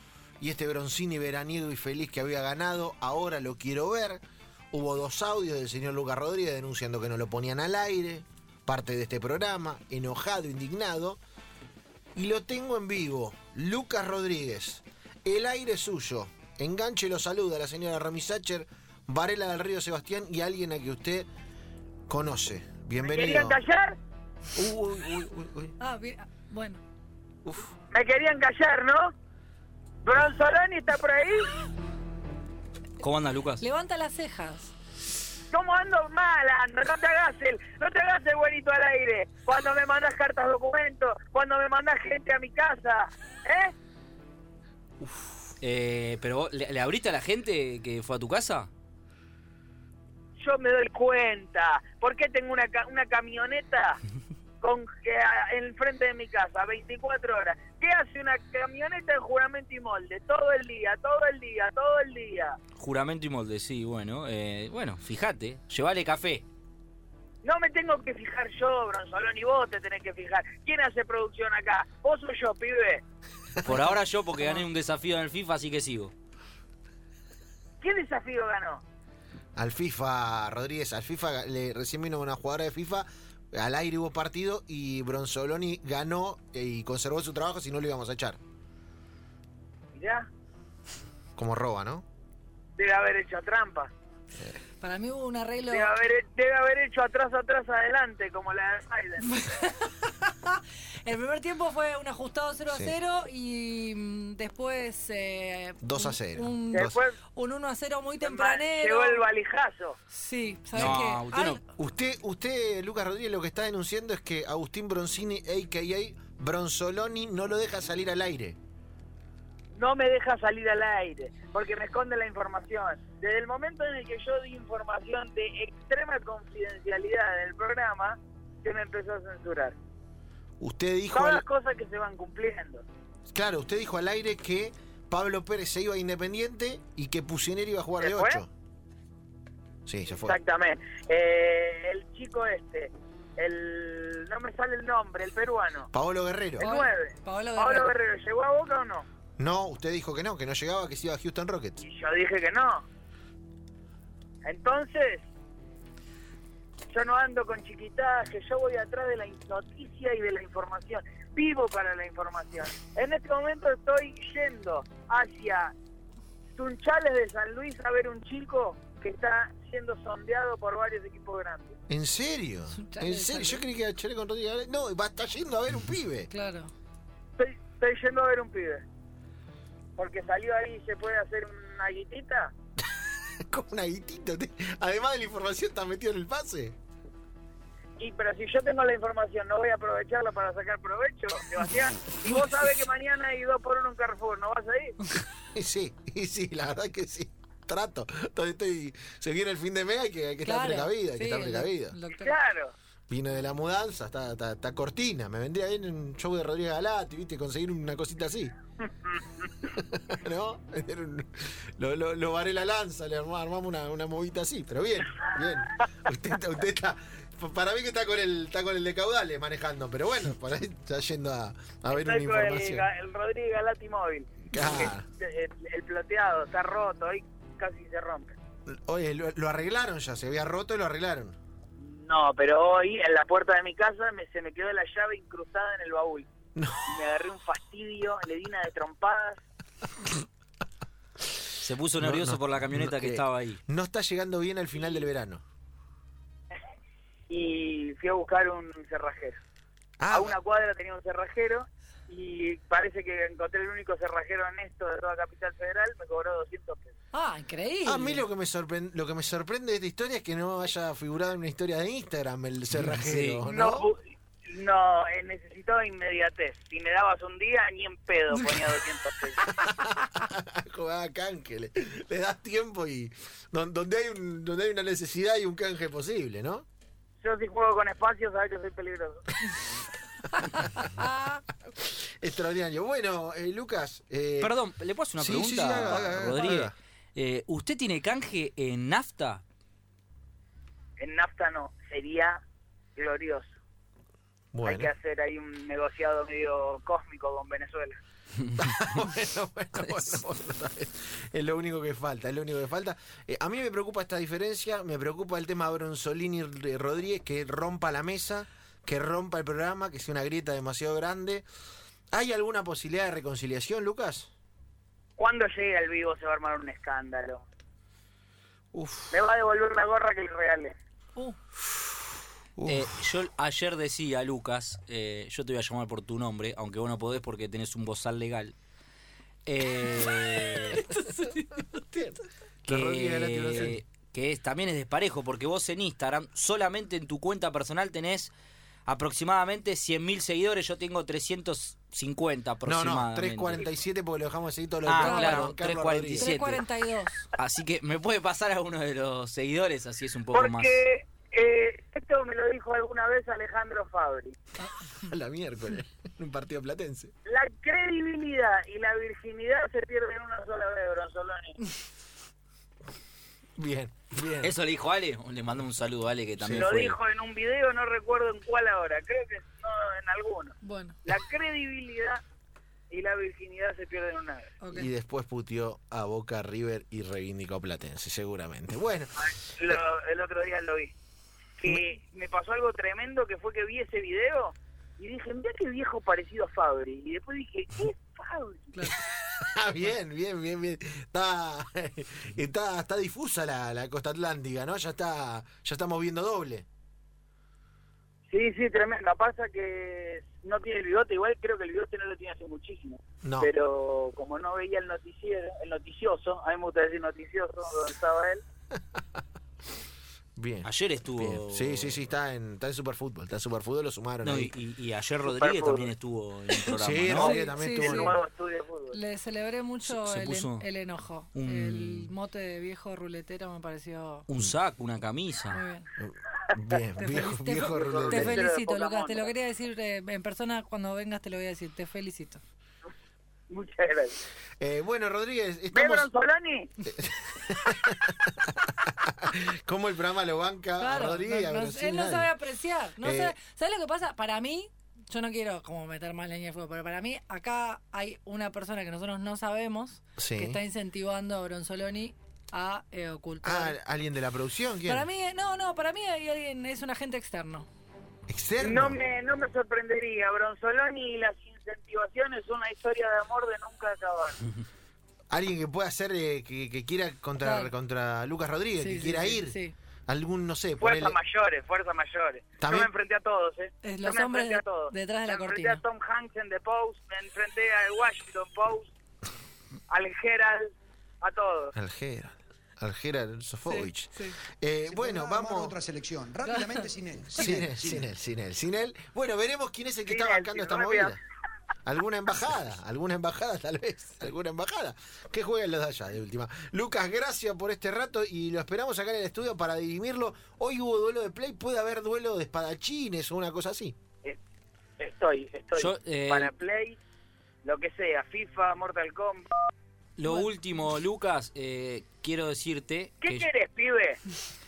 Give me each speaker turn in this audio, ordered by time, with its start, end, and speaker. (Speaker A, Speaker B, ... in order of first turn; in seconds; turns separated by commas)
Speaker A: 0.4-11.2, Speaker A: 12.2-21.3, Speaker A: 22.1-23.6, Speaker B: 23.0-24.0, Speaker A: 24.6-25.8, Speaker C: 25.8-26.8, Speaker A: 27.4-27.7, Speaker B: 27.9-29.1, Speaker B: 30.0-31.5, Speaker D: 33.0-33.6, Speaker C: 33.6-34.7, Speaker B: 35.5-43.7, Speaker D: 45.0-48.7, Speaker B: 50.4-54.0, Speaker B: 54.6-62.6, Speaker D: 62.8-66.5, Speaker B: 67.4-73.0, Speaker A: 73.6-73.9, Speaker D: 73.7-76.1, Speaker B: 77.8-78.8, Speaker A: 79.6-88.4, Speaker B: 90.0-90.3, Speaker A: 91.4-92.0, Speaker B: 92.8-93.9, Speaker C: 94.8-95.9, Speaker B: 95.7-99.4, Speaker C: 99.2-109.3, Speaker A: 102.7-103.0, Speaker A: 105.8-107.0, Speaker B: 106.7-107.2, Speaker B: 108.2-110.0, Speaker C: 110.1-111.6, Speaker A: 110.8-111.0, Speaker D: 110.8-111.6, Speaker A: 111.8-118.6, Speaker B: 119.8-129.8, Speaker A: 130.6-131.4, Speaker B: 131.1-132.8, Speaker A: 133.3-138.5, Speaker B: 138.0-138.4, Speaker A: 139.9-140.4, Speaker B: 140.1-145.9, Speaker A: 145.9-146.7, Speaker C: 146.6-147.9, Speaker B: 146.6-149.1, Speaker A: 149.4-151.8, Speaker B: 151.8-152.8, Speaker B: 154.4-155.3, Speaker B: 156.9-165.7, Speaker B: 166.6-171.8, Speaker A: 171.9-176.3, Speaker C: 172.7-173.7, Speaker C: 176.3-176.7, Speaker B: 177.4-178.8, Speaker B: 180.0-182.5, Speaker A: 183.4-186.8, Speaker B: 188.0-195.0, Speaker A: 195.5-202.0, Speaker C: 200.4-202.4, Speaker B: 202.2-202.7, Speaker A: 203.1-208.5, Speaker A: 209.6-222.9, Speaker B: 221.9-228.4, Speaker A: 224.5-225.1, Speaker A: 228.7-231.4, Speaker B: 231.8-236.3, Speaker A: 236.6-237.0, Speaker B: 236.9-239.4, Speaker D: 241.6-243.6, Speaker A: 242.0-245.4, Speaker B: 247.3-249.4, Speaker A: 250.0-250.3, Speaker B: 250.1-256.9, Speaker C: 257.1-258.2, Speaker A: 257.8-263.9, Speaker D: 262.7-263.4, Speaker B: 263.4-269.4, Speaker A: 269.4-276.7, Speaker B: 277.2-279.4, Speaker C: 280.8-281.4, Speaker A: 281.8-284.6, Speaker D: 284.4-289.4, Speaker A: 285.2-286.8, Speaker B: 291.0-292.4, Speaker B: 293.0-293.6, Speaker A: 294.5-294.9, Speaker B: 294.6-298.0, Speaker A: 298.6-311.5, Speaker D: 299.8-300.2, Speaker A: 312.1-314.3, Speaker B: 315.2-317.4, Speaker A: 318.7-319.2, Speaker B: 319.1-320.8, Speaker A: 322.6-322.9, Speaker D: 322.7-328.6, Speaker D: 329.5-330.8, Speaker C: 330.5-331.7, Speaker A: 331.8-333.8, Speaker D: 332.7-338.3, Speaker D: 338.9-343.6, Speaker A: 342.6-346.4, Speaker D: 344.9-346.6, Speaker C: 345.0-345.5, Speaker C: 346.1-347.3, Speaker D: 347.4-350.8, Speaker B: 350.3-354.4, Speaker A: 355.0-357.1, Speaker B: 357.3-361.6, Speaker A: 363.6-364.5, Speaker D: 364.4-367.0, Speaker A: 366.4-366.7, Speaker B: 366.6-372.2, Speaker C: 370.6-371.0, Speaker B: 372.9-374.5, Speaker C: 374.6-374.9, Speaker A: 374.7-379.2, Speaker B: 379.2-380.9, Speaker B: 381.6-388.7, Speaker A: 388.8-396.7, Speaker B: 398.3-408.4, Speaker A: 403.2-403.5, Speaker A: 410.4-414.5, Speaker D: 410.6-412.0, Speaker D: 414.2-417.4, Speaker B: 415.3-415.9, Speaker A: 416.7-418.2, Speaker C: 417.2-418.1, Speaker B: 417.7-419.0, Speaker C: 418.9-424.3, Speaker D: 419.9-420.7, Speaker D: 421.3-422.1, Speaker D: 424.3-425.6, Speaker C: 425.5-425.9, Speaker A: 426.0-428.5, Speaker C: 427.0-432.4, Speaker B: 427.6-429.3, Speaker B: 433.5-434.2, Speaker A: 434.6-436.1, Speaker B: 435.7-436.7, Speaker A: 436.9-442.3, Speaker C: 440.8-453.8, Speaker A: 443.0-443.4, Speaker A: 450.2-450.6, Speaker A: 453.4-455.1, Speaker C: 454.9-457.7, Speaker A: 458.3-459.0, Speaker B: 458.6-464.5, Speaker A: 465.3-471.2, Speaker C: 467.4-467.7, Speaker C: 468.8-469.8, Speaker B: 470.8-478.9, Speaker A: 472.6-472.9, Speaker C: 473.8-475.8, Speaker B: 479.9-481.7, Speaker A: 481.8-485.8, Speaker C: 483.7-484.4, Speaker E: 484.9-488.1, Speaker C: 486.5-486.9, Speaker A: 487.4-491.2, Speaker B: 490.1-491.2, Speaker A: 491.9-504.0, Speaker B: 505.0-507.0, Speaker D: 505.8-506.5, Speaker B: 507.6-509.5, Speaker D: 510.2-513.5, Speaker B: 513.2-514.2